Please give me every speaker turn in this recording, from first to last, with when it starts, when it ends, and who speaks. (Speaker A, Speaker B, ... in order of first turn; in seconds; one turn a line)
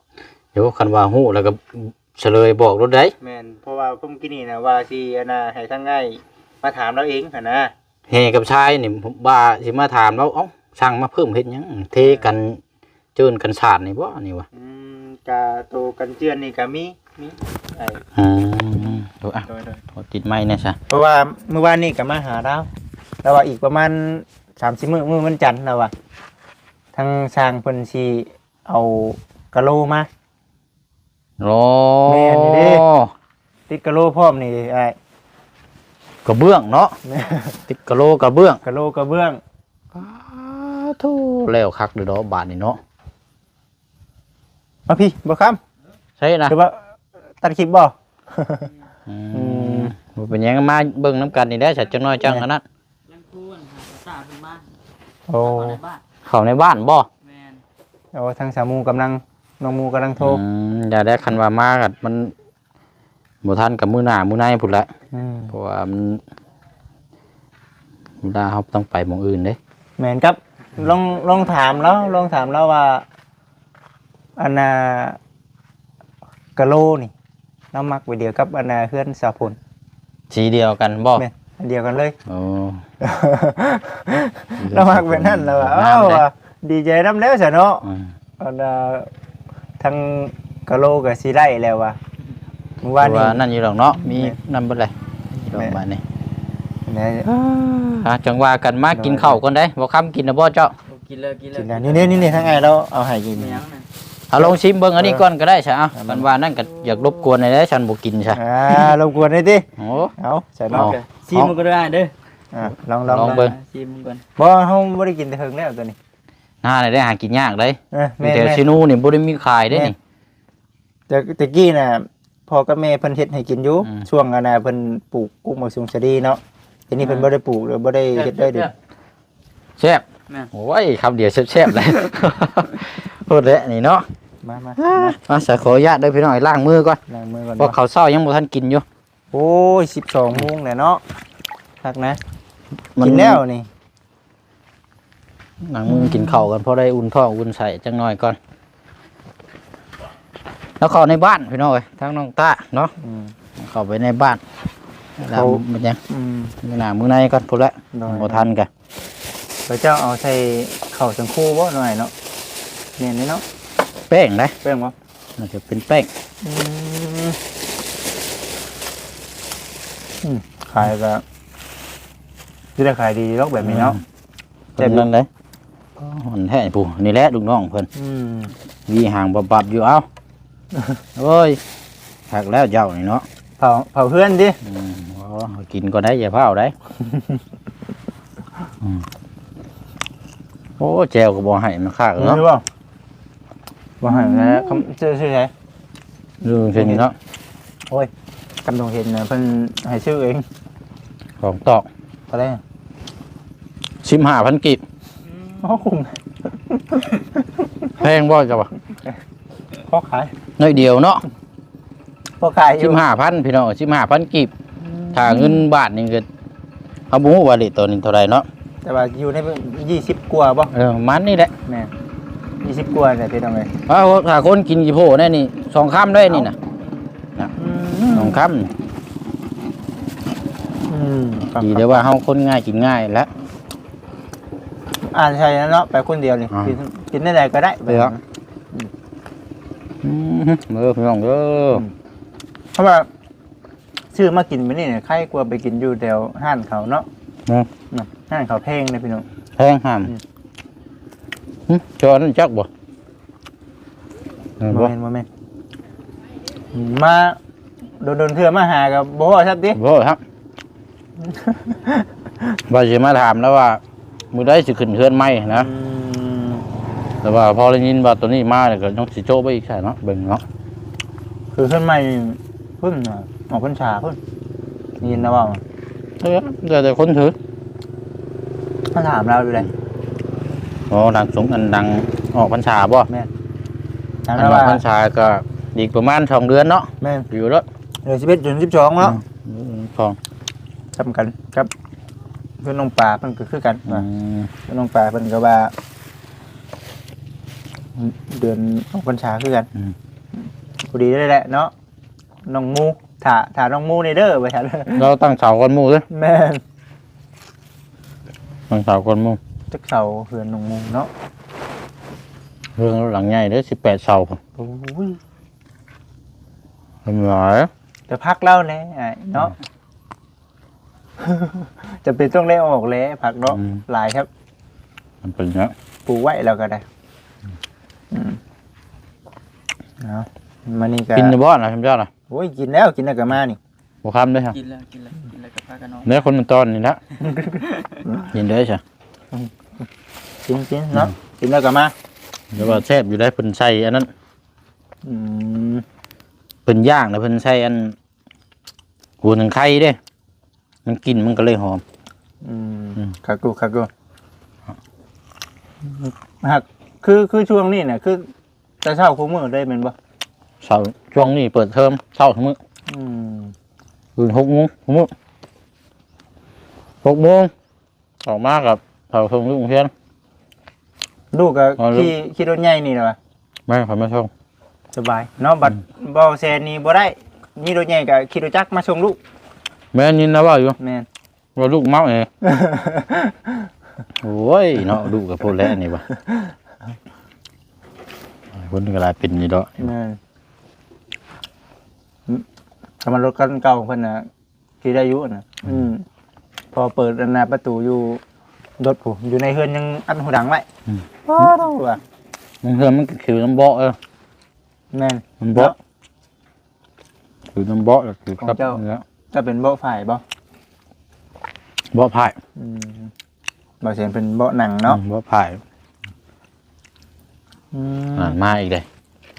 Speaker A: 0.5-3.1
Speaker B: 3.2-7.7
Speaker A: 8.1-12.6
Speaker A: 13.2-14.5
Speaker B: 14.5-18.0
Speaker A: 18.1-20.8
Speaker B: 19.4-19.8
Speaker B: 20.9-22.7
Speaker B: 23.2-25.9
Speaker B: 26.9-30.1
Speaker A: 31.4-33.1
Speaker B: 32.0-32.9
Speaker B: 33.7-35.0
Speaker A: 36.2-37.0
Speaker B: 37.0-37.6
Speaker A: 37.7-38.6
Speaker B: 38.6-39.4
Speaker A: 39.9-42.8
Speaker B: 44.9-45.6
Speaker A: 46.2-46.5
Speaker B: 46.5-48.7
Speaker A: 49.1-52.6
Speaker B: 49.3-49.9
Speaker C: 53.1-54.7
Speaker B: 55.3-55.8
Speaker C: 55.4-56.0
Speaker A: 56.2-57.1
Speaker C: 57.2-57.6
Speaker B: 58.1-60.4
Speaker A: 60.2-62.3
Speaker A: 63.4-64.9
Speaker B: 65.1-65.5
Speaker A: 65.5-66.2
Speaker A: 68.2-69.6
Speaker B: 70.0-73.0
Speaker B: 74.4-75.2
Speaker B: 76.5-77.1
Speaker B: 77.7-79.6
Speaker A: 80.3-81.2
Speaker B: 81.2-82.2
Speaker A: 82.3-82.8
Speaker B: 83.0-87.9
Speaker A: 84.6-86.2
Speaker A: 87.8-88.1
Speaker B: 88.4-89.1
Speaker B: 89.8-92.0
Speaker B: 92.8-93.4
Speaker A: 93.0-96.0
Speaker B: 94.0-94.3
Speaker B: 95.5-95.8
Speaker B: 96.9-97.3
Speaker A: 97.2-100.7
Speaker B: 98.9-99.4
Speaker C: 100.9-102.5
Speaker B: 101.5-103.6
Speaker C: 103.3-103.8
Speaker A: 104.3-108.9
Speaker B: 104.4-105.2
Speaker B: 105.9-106.3
Speaker B: 108.3-110.9
Speaker A: 109.8-110.1
Speaker A: 110.7-111.5
Speaker C: 110.7-112.1
Speaker B: 112.5-113.4
Speaker A: 113.1-113.6
Speaker C: 113.1-114.2
Speaker B: 114.4-116.0
Speaker A: 116.6-120.0
Speaker B: 117.9-118.7
Speaker B: 121.1-128.7
Speaker C: 127.0-127.3
Speaker A: 129.8-134.1
Speaker B: 134.4-135.2
Speaker A: 134.8-137.0
Speaker B: 137.1-137.7
Speaker A: 137.6-138.8
Speaker B: 139.3-141.0
Speaker B: 141.8-142.2
Speaker A: 142.9-143.4
Speaker B: 143.0-143.7
Speaker A: 145.6-148.4
Speaker B: 145.9-146.4
Speaker A: 150.8-152.9
Speaker B: 153.0-153.3
Speaker A: 153.6-154.4
Speaker A: 155.2-156.0
Speaker B: 155.3-156.6
Speaker A: 156.6-158.7
Speaker B: 157.9-158.5
Speaker B: 159.7-162.1
Speaker B: 163.0-163.4
Speaker A: 164.1-164.6
Speaker B: 164.6-164.9
Speaker A: 165.4-166.1
Speaker B: 166.4-167.4
Speaker B: 170.2-171.2
Speaker B: 172.8-174.0
Speaker A: 173.6-174.0
Speaker A: 174.8-175.3
Speaker B: 174.8-175.1
Speaker A: 175.9-177.9
Speaker B: 177.9-178.5
Speaker A: 178.9-180.1
Speaker A: 181.2-181.6
Speaker A: 182.3-183.2
Speaker B: 183.6-184.6
Speaker A: 184.6-186.7
Speaker B: 187.1-187.4
Speaker A: 190.8-192.4
Speaker B: 192.2-192.6
Speaker B: 194.0-195.5
Speaker A: 194.1-194.8
Speaker A: 196.4-197.1
Speaker B: 196.7-197.1
Speaker B: 198.6-200.4
Speaker A: 201.4-201.9
Speaker B: 202.3-202.6
Speaker A: 204.0-204.8
Speaker B: 205.6-206.2
Speaker B: 206.7-207.8
Speaker A: 208.0-208.7
Speaker B: 209.9-210.3
Speaker A: 210.6-211.2
Speaker B: 212.4-213.0
Speaker A: 212.8-214.5
Speaker B: 214.8-215.7
Speaker A: 215.1-216.2
Speaker A: 217.1-218.5
Speaker B: 218.8-220.7
Speaker A: 220.7-221.5
Speaker B: 221.7-221.9
Speaker B: 222.6-223.7
Speaker A: 223.9-226.6
Speaker B: 227.6-228.4
Speaker A: 228.1-228.7
Speaker B: 230.9-232.1
Speaker A: 231.6-233.3
Speaker B: 235.1-238.2
Speaker A: 236.5-236.8
Speaker A: 237.9-238.2
Speaker A: 240.0-241.8
Speaker B: 242.7-243.1
Speaker B: 244.1-247.1
Speaker B: 247.9-249.2
Speaker A: 249.6-250.1
Speaker A: 251.7-252.7
Speaker A: 254.6-254.9
Speaker B: 254.7-255.3
Speaker B: 256.7-257.4
Speaker B: 258.0-259.8
Speaker A: 259.7-260.2
Speaker B: 261.2-262.6
Speaker A: 262.7-263.8
Speaker A: 264.3-265.7
Speaker B: 265.5-266.6
Speaker A: 267.2-270.4
Speaker B: 271.5-274.2
Speaker B: 275.0-275.6
Speaker A: 276.2-277.4
Speaker B: 278.9-279.7
Speaker A: 280.9-283.1
Speaker B: 284.2-284.8
Speaker A: 284.4-287.6
Speaker B: 287.0-287.3
Speaker B: 288.0-289.2
Speaker A: 289.0-290.2
Speaker B: 290.9-291.7
Speaker B: 292.6-294.1
Speaker A: 293.9-294.5
Speaker B: 294.7-295.7
Speaker B: 297.9-299.7
Speaker B: 300.9-301.7
Speaker B: 302.4-305.1
Speaker A: 304.9-306.1
Speaker B: 306.1-306.6
Speaker A: 308.7-309.4
Speaker B: 309.7-311.1
Speaker A: 312.8-314.4
Speaker B: 314.6-315.2
Speaker A: 317.0-317.7
Speaker B: 318.1-319.6
Speaker B: 321.2-324.3
Speaker A: 323.5-323.8
Speaker A: 325.2-325.7
Speaker B: 326.1-326.8
Speaker B: 328.1-328.4
Speaker B: 330.0-331.4
Speaker A: 331.1-332.1
Speaker B: 332.3-333.6
Speaker A: 334.0-334.6
Speaker C: 334.5-336.2
Speaker A: 336.0-337.0
Speaker B: 337.2-338.3
Speaker C: 337.6-338.0
Speaker A: 338.3-338.8
Speaker B: 339.3-339.9
Speaker B: 340.4-341.9
Speaker A: 342.5-344.1
Speaker B: 345.0-345.8
Speaker A: 346.6-347.9
Speaker A: 349.2-350.0
Speaker A: 350.8-351.8
Speaker B: 352.4-353.9
Speaker B: 355.8-358.3
Speaker B: 358.8-359.9
Speaker A: 360.6-362.6
Speaker B: 362.9-363.5
Speaker A: 364.2-365.1
Speaker A: 367.0-367.5
Speaker A: 368.2-369.9
Speaker B: 371.3-373.2
Speaker A: 371.8-372.1
Speaker A: 373.7-374.3
Speaker B: 374.9-379.2
Speaker A: 379.9-380.8
Speaker B: 380.8-381.1
Speaker A: 381.6-382.3
Speaker B: 382.4-383.6
Speaker A: 384.2-386.0
Speaker B: 386.2-386.5
Speaker A: 388.5-389.9
Speaker B: 389.8-390.2
Speaker B: 393.0-394.3
Speaker B: 394.8-396.0
Speaker B: 396.7-398.2
Speaker B: 398.8-400.6
Speaker B: 401.2-402.0
Speaker A: 402.6-404.0
Speaker B: 404.9-405.8
Speaker A: 405.4-405.7
Speaker A: 407.5-409.0
Speaker B: 408.4-410.2
Speaker A: 411.9-412.4
Speaker B: 412.6-413.1
Speaker B: 413.8-415.0
Speaker A: 414.9-415.6
Speaker B: 417.7-418.4
Speaker A: 418.2-418.9